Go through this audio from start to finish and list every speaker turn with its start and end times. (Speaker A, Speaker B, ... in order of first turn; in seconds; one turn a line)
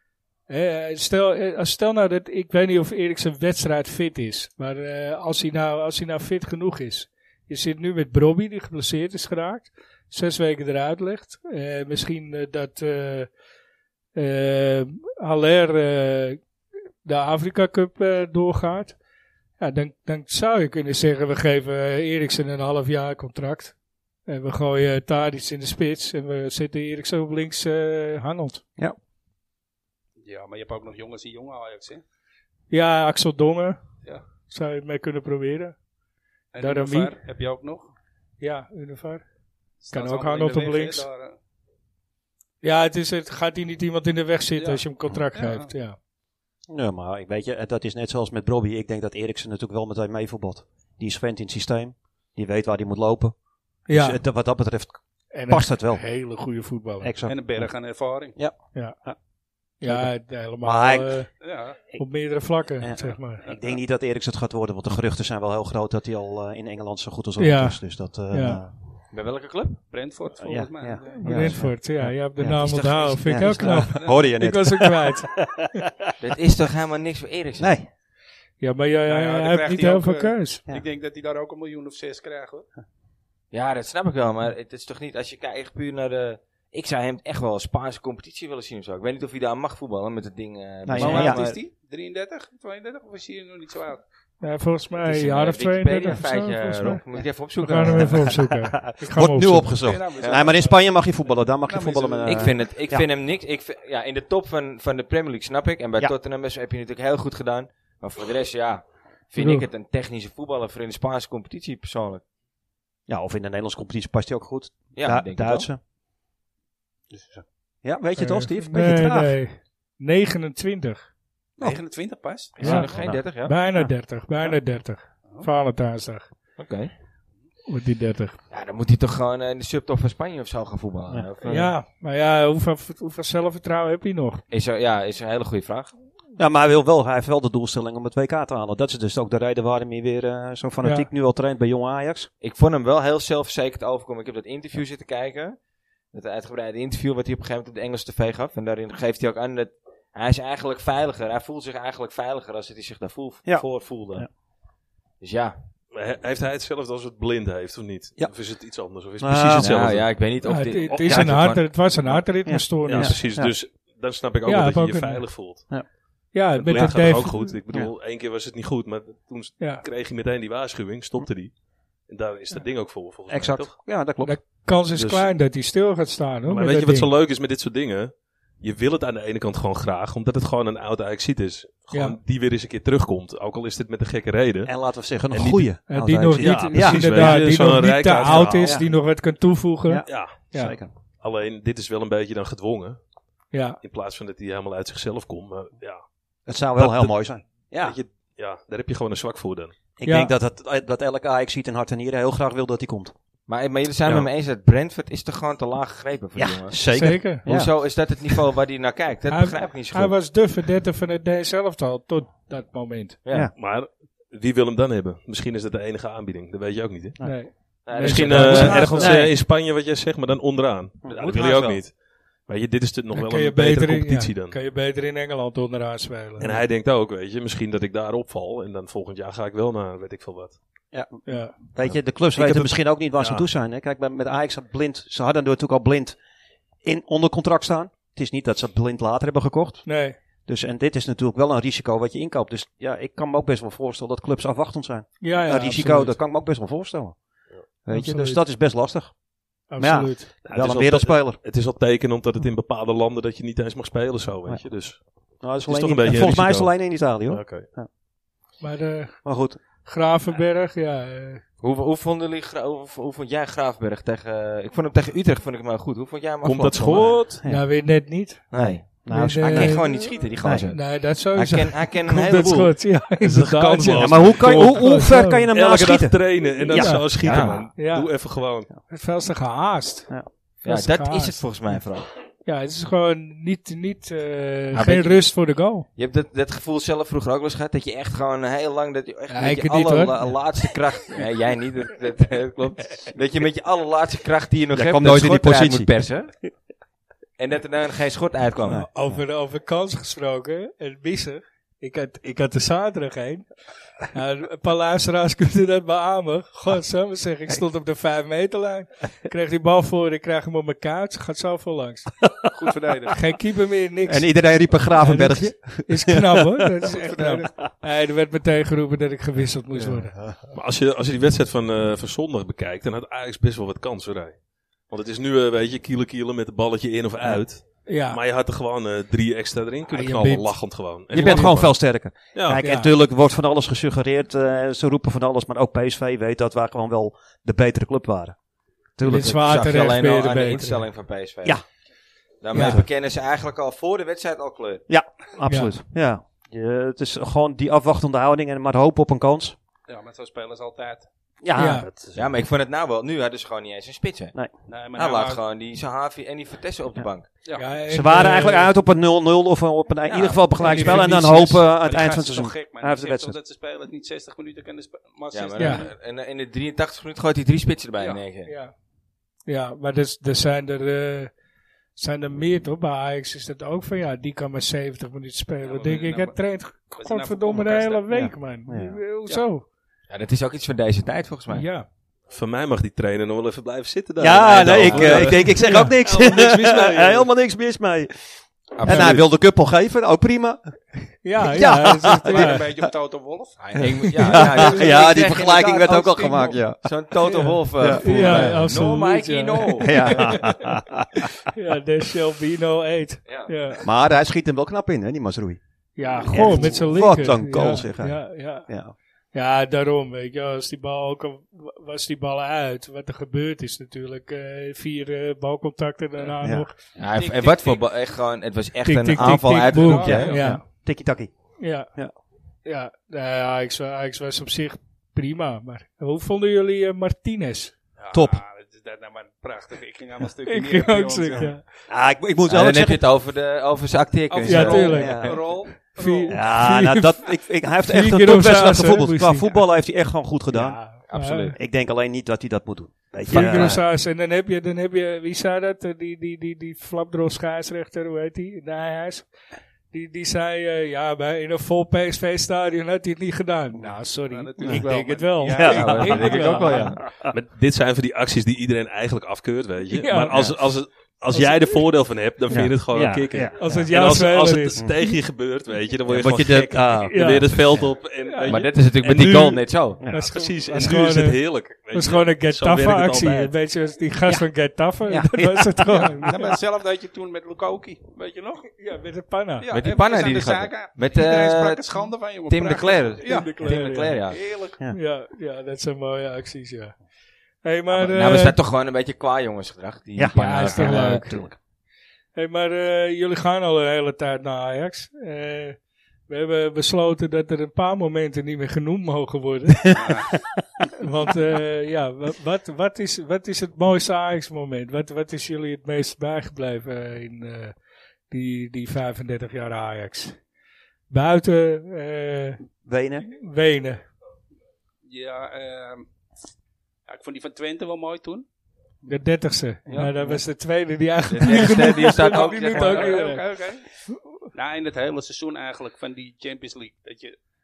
Speaker A: 0.5-13.3
Speaker A: 14.1-16.4
Speaker A: 17.0-18.9
Speaker A: 19.6-23.8
Speaker A: 24.2-28.6
Speaker B: 30.2-32.0
Speaker A: 32.7-33.8
Speaker A: 34.4-35.8
Speaker B: 36.5-37.9
Speaker A: 36.6-37.1
Speaker A: 38.4-39.2
Speaker B: 39.8-41.4
Speaker A: 39.9-41.1
Speaker A: 42.6-46.0
Speaker B: 44.6-45.7
Speaker C: 46.7-56.1
Speaker A: 53.9-54.2
Speaker A: 55.3-57.1
Speaker C: 57.0-57.7
Speaker B: 57.2-58.4
Speaker C: 58.4-59.2
Speaker C: 59.8-61.2
Speaker A: 59.8-63.4
Speaker B: 61.4-61.9
Speaker C: 62.8-68.7
Speaker B: 63.4-63.8
Speaker A: 67.4-68.6
Speaker D: 69.1-69.8
Speaker B: 69.9-71.7
Speaker C: 70.4-75.9
Speaker A: 71.0-75.8
Speaker D: 72.7-73.8
Speaker B: 73.3-74.3
Speaker D: 76.2-77.7
Speaker C: 77.6-77.9
Speaker A: 78.6-80.7
Speaker B: 79.1-82.7
Speaker D: 83.5-91.6
Speaker C: 90.9-91.4
Speaker B: 90.9-94.0
Speaker A: 94.4-97.0
Speaker D: 95.0-98.3
Speaker A: 97.6-99.8
Speaker C: 97.8-103.0
Speaker B: 99.7-102.7
Speaker D: 100.2-100.5
Speaker D: 102.2-112.2
Speaker A: 109.4-109.7
Speaker C: 113.1-115.8
Speaker D: 114.9-115.7
Speaker B: 117.1-117.4
Speaker C: 117.8-119.4
Speaker A: 118.2-121.1
Speaker B: 121.6-122.6
Speaker D: 122.6-123.5
Speaker C: 122.6-123.9
Speaker A: 122.6-126.3
Speaker D: 126.6-126.9
Speaker A: 127.7-128.4
Speaker D: 128.5-131.7
Speaker A: 131.4-134.4
Speaker D: 134.5-135.9
Speaker C: 136.4-142.3
Speaker A: 140.8-141.1
Speaker D: 142.4-145.6
Speaker D: 146.1-153.4
Speaker C: 153.5-154.3
Speaker E: 153.6-154.2
Speaker D: 155.2-155.5
Speaker E: 155.9-160.1
Speaker C: 159.2-159.7
Speaker D: 159.6-161.6
Speaker A: 160.4-163.2
Speaker E: 160.9-161.5
Speaker C: 161.1-161.3
Speaker C: 162.4-163.5
Speaker E: 162.8-165.7
Speaker A: 164.5-165.3
Speaker A: 166.3-167.5
Speaker E: 166.5-171.5
Speaker A: 169.6-169.8
Speaker E: 172.1-173.7
Speaker C: 173.3-175.3
Speaker A: 174.2-177.1
Speaker E: 176.5-184.7
Speaker A: 181.9-182.2
Speaker C: 184.7-187.6
Speaker E: 185.3-185.7
Speaker A: 185.9-190.8
Speaker E: 186.4-188.9
Speaker C: 188.2-188.9
Speaker C: 189.9-190.9
Speaker E: 190.1-190.5
Speaker E: 191.2-193.0
Speaker A: 193.5-193.8
Speaker E: 193.8-196.0
Speaker C: 196.5-198.0
Speaker E: 196.8-197.1
Speaker E: 197.6-199.7
Speaker C: 200.0-203.1
Speaker A: 200.1-200.3
Speaker D: 203.5-206.8
Speaker C: 206.4-207.7
Speaker E: 206.8-207.2
Speaker A: 206.9-207.4
Speaker D: 207.4-210.1
Speaker A: 209.3-213.2
Speaker D: 213.2-213.5
Speaker E: 213.5-217.2
Speaker A: 217.2-219.2
Speaker D: 217.8-219.2
Speaker E: 217.9-222.0
Speaker C: 218.3-219.3
Speaker D: 221.1-221.8
Speaker E: 222.5-224.6
Speaker A: 223.1-226.6
Speaker E: 226.4-230.6
Speaker C: 230.9-236.2
Speaker A: 231.2-231.5
Speaker E: 231.9-233.4
Speaker C: 236.8-247.2
Speaker A: 239.9-240.2
Speaker A: 245.2-246.2
Speaker C: 247.8-249.2
Speaker A: 247.9-248.4
Speaker A: 249.7-250.3
Speaker C: 249.8-251.4
Speaker E: 250.4-257.7
Speaker C: 255.4-257.9
Speaker A: 258.6-261.4
Speaker C: 259.2-259.6
Speaker D: 261.6-267.2
Speaker E: 266.4-267.4
Speaker C: 267.4-267.7
Speaker A: 267.5-268.5
Speaker D: 268.5-272.7
Speaker C: 268.5-269.9
Speaker A: 269.1-270.1
Speaker C: 270.4-270.7
Speaker A: 270.7-275.5
Speaker E: 273.2-274.8
Speaker C: 273.9-277.5
Speaker E: 275.5-278.7
Speaker A: 276.7-278.1
Speaker D: 277.2-277.7
Speaker A: 278.9-281.4
Speaker D: 280.6-282.1
Speaker A: 282.4-285.9
Speaker D: 284.7-285.3
Speaker D: 286.0-296.3
Speaker A: 289.3-290.4
Speaker C: 294.7-295.9
Speaker D: 297.4-298.8
Speaker A: 298.7-312.3
Speaker B: 312.5-313.2
Speaker A: 313.1-320.1
Speaker C: 314.1-316.7
Speaker B: 316.8-317.7
Speaker C: 319.7-320.4
Speaker E: 320.5-324.4
Speaker E: 324.9-331.8
Speaker A: 327.9-328.2
Speaker A: 329.9-330.6
Speaker C: 331.1-338.4
Speaker A: 331.1-331.5
Speaker E: 332.3-332.6
Speaker A: 332.6-332.9
Speaker C: 339.0-339.8
Speaker A: 339.0-340.9
Speaker D: 339.1-341.6
Speaker D: 342.4-344.8
Speaker C: 342.5-342.9
Speaker A: 342.5-342.8
Speaker C: 344.9-349.6
Speaker A: 345.5-345.7
Speaker B: 349.9-351.1
Speaker C: 351.4-352.0
Speaker A: 351.6-351.9
Speaker E: 351.6-352.2
Speaker D: 352.1-354.4
Speaker B: 354.7-355.4
Speaker D: 354.9-357.3
Speaker B: 357.4-357.8
Speaker A: 357.6-358.7
Speaker C: 357.9-363.4
Speaker D: 360.1-361.0
Speaker B: 360.6-365.9
Speaker A: 360.6-361.6
Speaker D: 365.3-368.5
Speaker B: 368.0-368.3
Speaker A: 368.4-368.7
Speaker A: 369.5-371.3
Speaker A: 372.0-379.6
Speaker B: 375.6-376.4
Speaker B: 376.9-378.0
Speaker C: 378.1-379.0
Speaker D: 380.1-381.6
Speaker A: 381.5-381.9
Speaker E: 382.3-387.3
Speaker C: 384.2-390.7
Speaker D: 384.7-385.4
Speaker A: 385.6-385.9
Speaker D: 388.8-389.2
Speaker A: 391.2-392.6
Speaker C: 391.4-392.6
Speaker B: 392.1-395.1
Speaker D: 393.6-400.4
Speaker C: 394.3-396.9
Speaker A: 397.3-400.6
Speaker C: 397.8-398.7
Speaker C: 399.8-401.3
Speaker A: 401.4-403.9
Speaker D: 403.2-403.5
Speaker C: 403.8-405.6
Speaker A: 406.0-408.7
Speaker B: 406.1-406.6
Speaker C: 406.3-408.9
Speaker A: 409.3-416.8
Speaker D: 417.0-420.4
Speaker B: 417.0-417.8
Speaker A: 418.9-420.6
Speaker C: 419.2-421.3
Speaker B: 419.6-420.4
Speaker A: 421.6-421.9
Speaker A: 422.6-427.7
Speaker B: 428.0-431.6
Speaker C: 428.1-428.4
Speaker A: 430.4-431.6
Speaker C: 431.9-433.0
Speaker D: 432.5-435.4
Speaker B: 434.3-436.5
Speaker A: 434.5-437.3
Speaker C: 434.7-435.4
Speaker C: 436.3-441.0
Speaker A: 437.8-439.5
Speaker A: 440.5-441.5
Speaker D: 441.1-441.6
Speaker C: 441.5-443.8
Speaker A: 443.3-449.3
Speaker D: 443.3-443.8
Speaker A: 449.9-457.0
Speaker B: 454.3-456.9
Speaker C: 455.5-457.3
Speaker D: 455.6-457.0
Speaker E: 457.3-473.5
Speaker A: 459.9-460.5
Speaker A: 461.3-461.8
Speaker C: 462.5-463.7
Speaker A: 463.6-465.1
Speaker C: 466.1-467.9
Speaker A: 467.1-467.5
Speaker A: 468.3-468.6
Speaker D: 468.5-470.0
Speaker C: 470.0-471.0
Speaker A: 470.1-471.4
Speaker A: 471.9-476.6
Speaker C: 475.0-476.1
Speaker B: 476.2-478.7
Speaker A: 478.7-479.7
Speaker B: 479.6-484.8
Speaker D: 479.7-481.8
Speaker D: 482.5-484.4
Speaker A: 483.2-484.2
Speaker A: 484.9-487.0
Speaker A: 487.6-488.6
Speaker D: 487.9-491.3
Speaker C: 490.1-491.5
Speaker A: 490.3-491.4
Speaker A: 492.4-495.8
Speaker A: 496.3-500.1
Speaker B: 499.9-500.4
Speaker A: 501.0-507.8
Speaker A: 508.3-510.4
Speaker A: 511.1-512.6
Speaker C: 512.9-513.3
Speaker A: 513.2-514.0
Speaker B: 515.0-516.1
Speaker B: 517.1-518.5
Speaker A: 519.1-523.4
Speaker D: 519.9-520.4
Speaker D: 521.3-523.2
Speaker B: 521.5-523.9
Speaker B: 524.5-527.4